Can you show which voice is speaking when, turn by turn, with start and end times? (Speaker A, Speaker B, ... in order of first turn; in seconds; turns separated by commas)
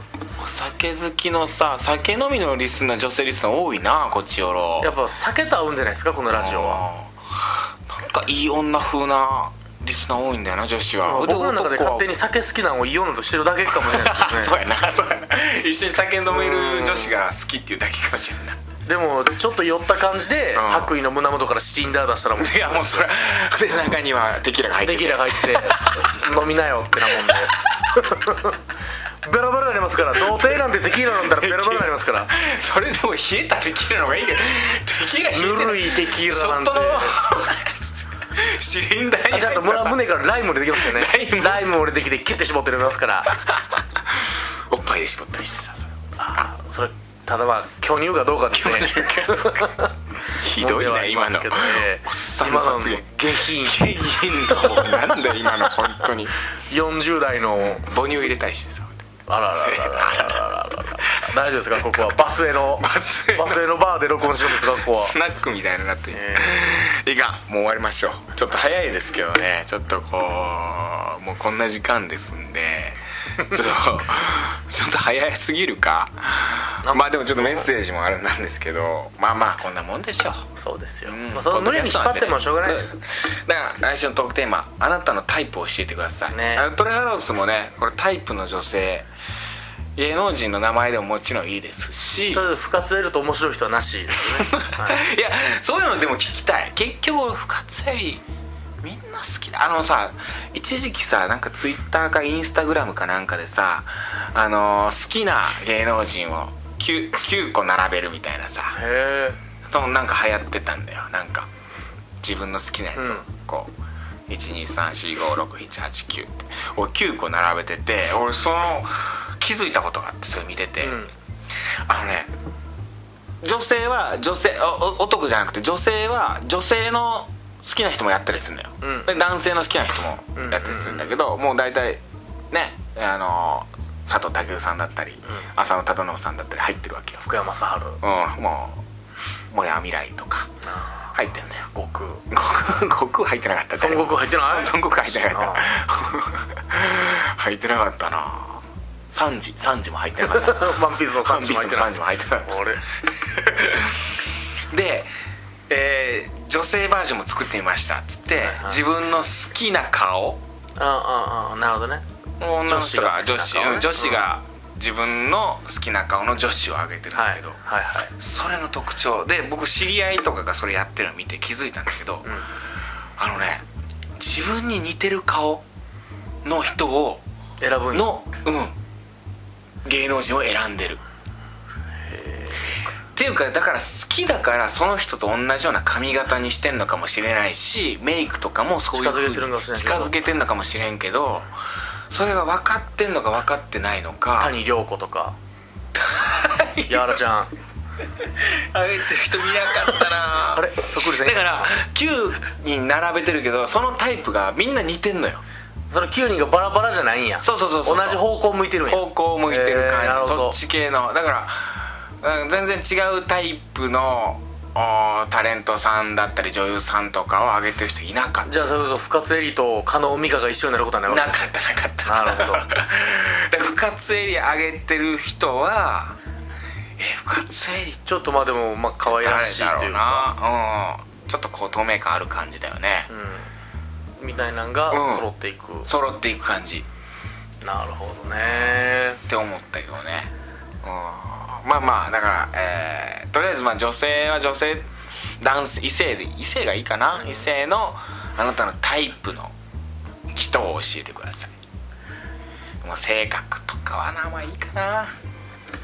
Speaker A: 0.4-4.9, Speaker B: 4.8-6.8, Speaker A: 6.3-12.1, Speaker B: 11.0-14.6, Speaker A: 13.7-18.6, Speaker B: 16.3-17.2, Speaker B: 18.9-23.1, Speaker A: 20.5-21.0, Speaker A: 22.4-26.1, Speaker B: 24.8-28.6, Speaker A: 27.1-27.5, Speaker B: 29.2-32.3, Speaker A: 30.2-40.1, Speaker B: 35.3-37.2, Speaker B: 39.3-43.4, Speaker A: 40.7-41.7, Speaker A: 43.3-43.8, Speaker A: 44.7-46.4, Speaker B: 46.2-49.9, Speaker A: 48.5-56.4, Speaker B: 50.5-55.8, Speaker B: 56.5-57.9, Speaker A: 57.6-59.0, Speaker B: 59.3-65.2, Speaker A: 59.6-60.6, Speaker A: 61.2-63.7, Speaker A: 64.2-80.4, Speaker B: 66.1-66.6, Speaker B: 76.8-77.7, Speaker B: 80.6-83.0, Speaker A: 81.1-89.1, Speaker B: 86.3-86.7, Speaker A: 90.0-92.5, Speaker B: 92.3-95.0, Speaker A: 94.3-98.2, Speaker A: 98.8-108.8, Speaker B: 108.8-109.4, Speaker A: 109.7-111.5, Speaker A: 112.2-113.7, Speaker B: 113.0-113.2, Speaker A: 114.3-121.1, Speaker B: 120.8-121.1, Speaker A: 121.9-122.3, Speaker A: 123.4-137.2, Speaker B: 128.8-129.2, Speaker B: 130.3-131.1, Speaker B: 137.2-138.0, Speaker A: 138.0-138.8, Speaker A: 139.5-140.5, Speaker B: 140.7-141.1, Speaker A: 141.1-141.8, Speaker B: 141.8-142.2, Speaker A: 142.3-155.1, Speaker B: 143.8-145.7, Speaker B: 150.2-151.9, Speaker B: 152.5-152.8, Speaker A: 155.7-160.4, Speaker B: 158.3-158.9, Speaker B: 160.8-162.0, Speaker A: 162.4-167.6, Speaker B: 162.7-164.3, Speaker B: 167.1-168.1, Speaker A: 168.2-172.3, Speaker A: 173.2-173.6, Speaker A: 174.2-175.6, Speaker A: 176.4-177.2, Speaker B: 177.6-178.2, Speaker A: 177.9-178.8, Speaker A: 179.8-181.0, Speaker B: 182.1-182.8, Speaker A: 183.1-191.5, Speaker B: 188.9-190.2, Speaker A: 192.1-194.6, Speaker B: 194.4-195.3, Speaker A: 195.9-197.2, Speaker B: 196.9-197.5, Speaker A: 198.2-205.4, Speaker B: 199.7-201.7, Speaker B: 205.9-210.6, Speaker A: 207.4-208.3, Speaker A: 208.9-218.5, Speaker B: 218.4-221.5, Speaker A: 221.1-226.2, Speaker B: 222.1-222.7, Speaker A: 227.0-228.1, Speaker B: 228.1-230.3, Speaker A: 229.0-233.1, Speaker B: 233.1-233.5, Speaker B: 234.2-235.9, Speaker A: 234.9-235.3, Speaker A: 235.8-236.9, Speaker B: 237.6-239.2, Speaker A: 238.4-240.3, Speaker A: 240.8-249.5, Speaker B: 247.2-247.5, Speaker A: 250.3-251.5, Speaker A: 252.8-255.1